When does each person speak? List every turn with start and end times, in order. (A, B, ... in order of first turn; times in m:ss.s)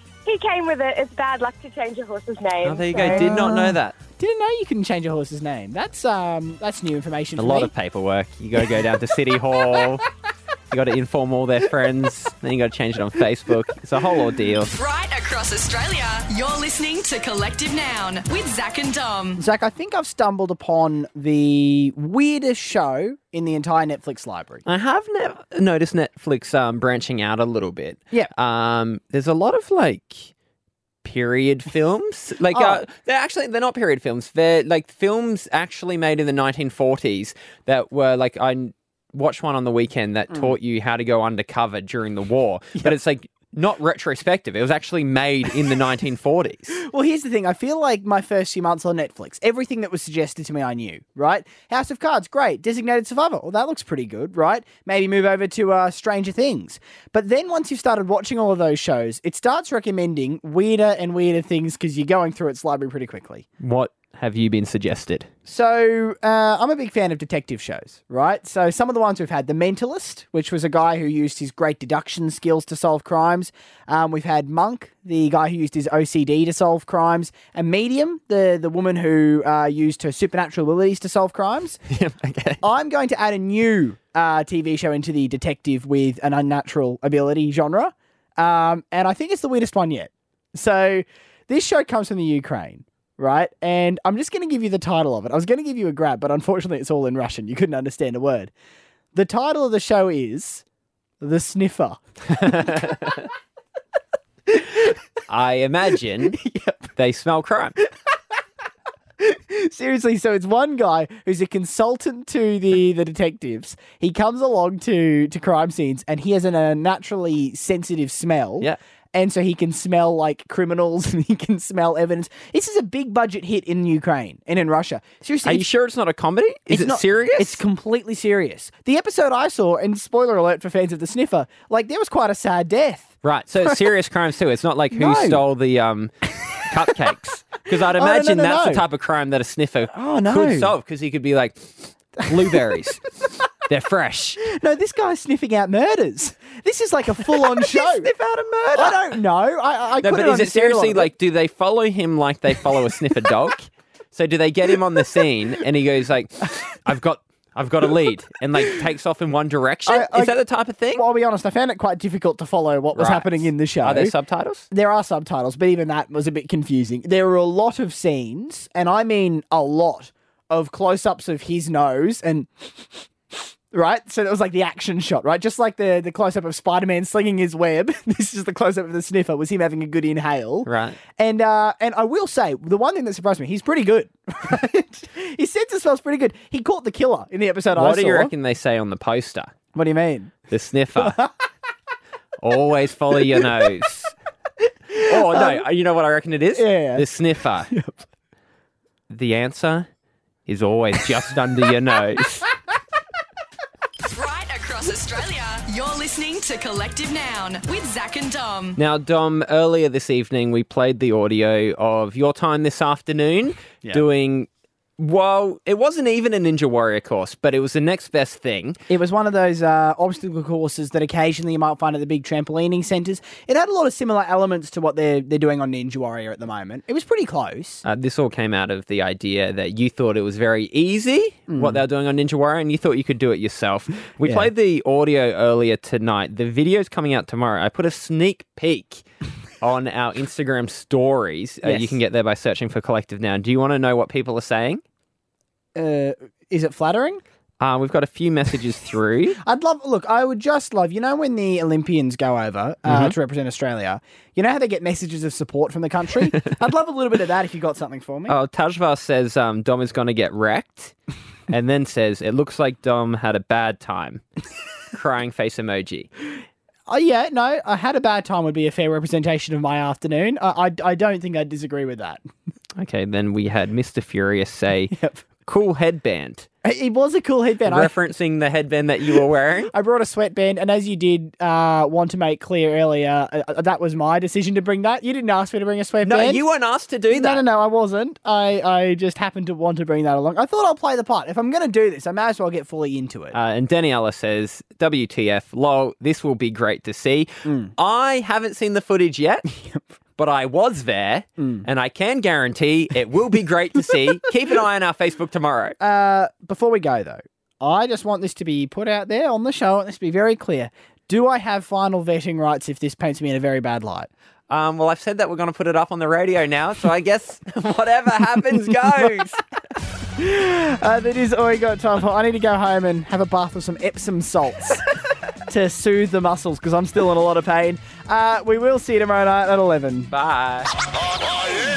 0:00.2-0:03.6 A
0:02.6-0:03.9 B
0:03.0-0:07.7 C
0:07.4-0:10.0 B
0:10.7-0:14.7 B
0:14.7-0:19.4 D
0:19.4-0:24.6 C
0:24.6-0:30.3 B
0:31.0-0:46.8 B
0:32.5-0:32.8 C
0:46.8-1:03.4 C
1:03.6-1:05.3 B
1:05.4-1:21.8 C
1:21.9-1:22.6 B
1:22.6-1:38.5 C
1:39.1-1:40.6 C
1:41.2-1:43.0 C
1:42.3-1:43.3 B
1:45.3-1:46.4 B
1:46.4-1:46.9 C
1:47.0-1:47.8 B
1:49.2-2:05.7 C
2:05.4-2:07.6 B
2:06.7-2:13.8 C
2:13.2-2:23.1 B
2:14.9-2:15.4 C
2:17.9-2:18.8 C
2:19.9-2:20.7 C
2:23.6-2:24.5 B
2:24.4-2:28.1 C
2:27.3-2:28.1 B
2:28.2-2:28.6 A
2:28.7-2:31.1 C
2:28.7-2:29.0 B
2:30.0-2:41.0 B
2:39.9-2:40.4 C
2:40.9-2:44.1 C
2:42.9-2:44.6 B
2:44.7-3:08.3 C
3:00.6-3:01.0 B
3:07.7-3:09.5 B
3:09.7-3:10.3 C
3:10.5-3:11.2 B
3:11.0-3:11.3 C
3:12.4-3:14.1 B
3:14.9-3:15.6 C
3:15.0-3:17.7 B
3:16.6-3:17.1 C
3:17.7-3:18.0 C
3:19.1-3:19.9 B
3:20.4-3:22.5 B
3:24.1-3:28.8 D
3:28.8-3:38.8 B
3:38.9-3:47.8 C
3:47.8-3:59.0 B
3:51.5-3:51.8 C
3:54.2-3:54.5 C
3:59.6-4:04.8 B
4:01.6-4:02.0 C
4:05.7-4:07.2 C
4:07.6-4:09.4 B
4:09.4-4:18.3 C
4:12.8-4:13.2 B
4:18.3-4:20.9 B
4:21.5-4:24.2 B
4:24.9-4:26.1 B
4:26.9-4:32.2 C
4:32.8-4:34.9 B
4:34.9-4:35.2 C
4:35.4-4:36.5 B
4:36.6-4:37.9 C
4:37.6-4:39.7 B
4:39.7-4:46.4 C
4:46.0-4:47.4 B
4:47.1-4:53.4 C
4:53.3-4:59.5 B
4:57.4-4:57.7 C
4:59.5-4:59.8 C
5:00.2-5:05.8 B
5:01.4-5:01.6 C
5:05.8-5:14.1 C
5:14.5-5:19.4 B
5:20.2-5:24.8 C
5:25.5-5:30.1 C
5:30.1-5:30.7 B